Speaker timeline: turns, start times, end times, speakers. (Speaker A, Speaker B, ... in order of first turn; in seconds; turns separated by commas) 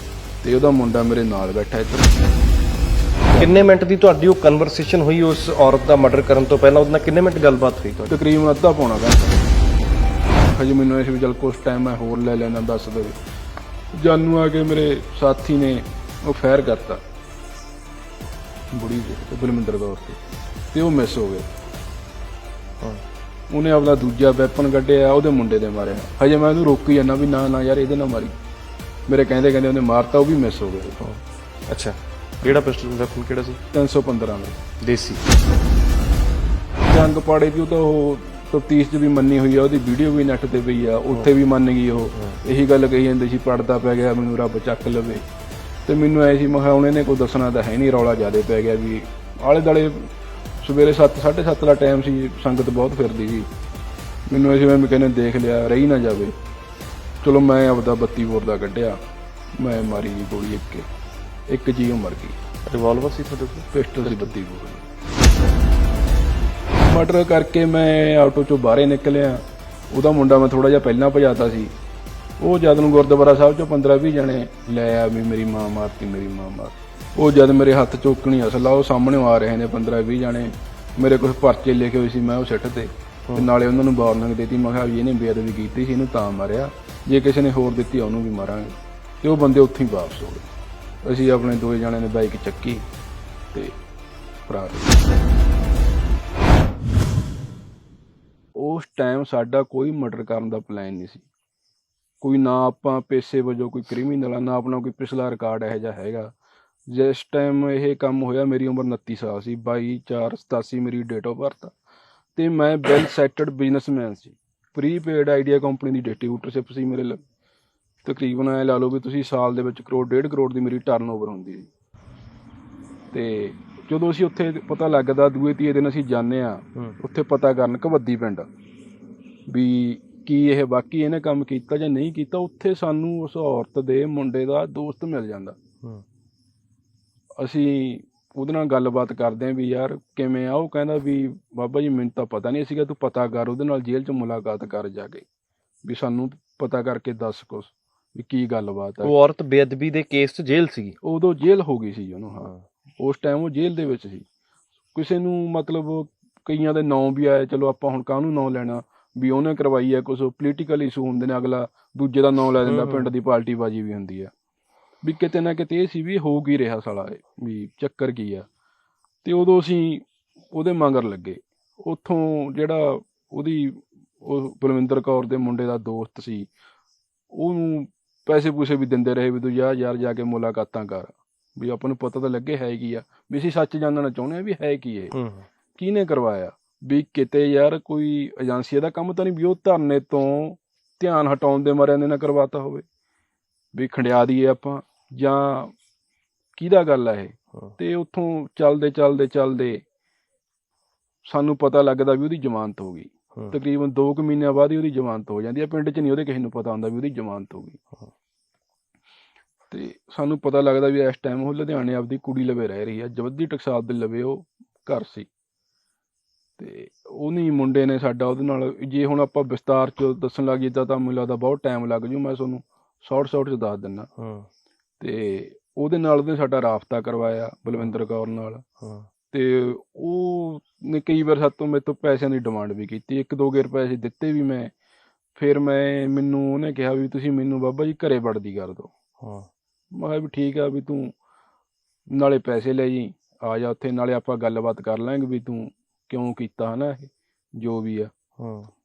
Speaker A: 0.4-2.2, Speaker B: 3.3-8.2, Speaker A: 8.1-9.4, Speaker A: 10.5-13.2, Speaker A: 13.9-17.0, Speaker A: 18.7-20.2, Speaker A: 20.7-21.5, Speaker A: 23.5-28.4, Speaker A: 29.1-31.0, Speaker B: 31.0-33.6, Speaker A: 33.7-34.6, Speaker B: 34.8-35.2, Speaker A: 36.8-45.2, Speaker B: 42.1-42.4, Speaker A: 45.9-53.5, Speaker A: 54.3-56.3, Speaker A: 57.2-59.0, Speaker A: 59.6-60.9, Speaker A: 61.5-62.4, Speaker B: 62.7-64.3, Speaker A: 63.7-64.9, Speaker A: 66.8-71.7, Speaker A: 72.4-90.5, Speaker A: 91.0-92.8, Speaker A: 94.5-95.0, Speaker A: 98.5-101.2, Speaker A: 102.2-106.3, Speaker A: 106.9-111.7, Speaker A: 112.3-117.2, Speaker A: 118.0-121.7, Speaker A: 123.1-128.5, Speaker A: 129.5-135.6, Speaker A: 137.4-145.2, Speaker A: 145.8-149.1, Speaker B: 149.0-150.9, Speaker A: 151.0-154.2, Speaker A: 154.9-164.3, Speaker B: 162.6-163.1, Speaker A: 165.0-168.5, Speaker A: 169.2-176.5, Speaker A: 177.3-185.2, Speaker B: 185.1-185.4, Speaker A: 185.8-192.8, Speaker A: 193.7-195.7, Speaker A: 196.6-199.8, Speaker A: 201.2-207.8, Speaker A: 209.7-215.3, Speaker A: 216.6-224.1, Speaker B: 224.2-224.5, Speaker A: 225.0-228.6, Speaker B: 228.8-229.1, Speaker A: 229.3-234.7, Speaker A: 235.3-238.9, Speaker B: 239.2-239.5, Speaker A: 239.9-241.1, Speaker A: 242.1-248.1, Speaker B: 248.4-248.7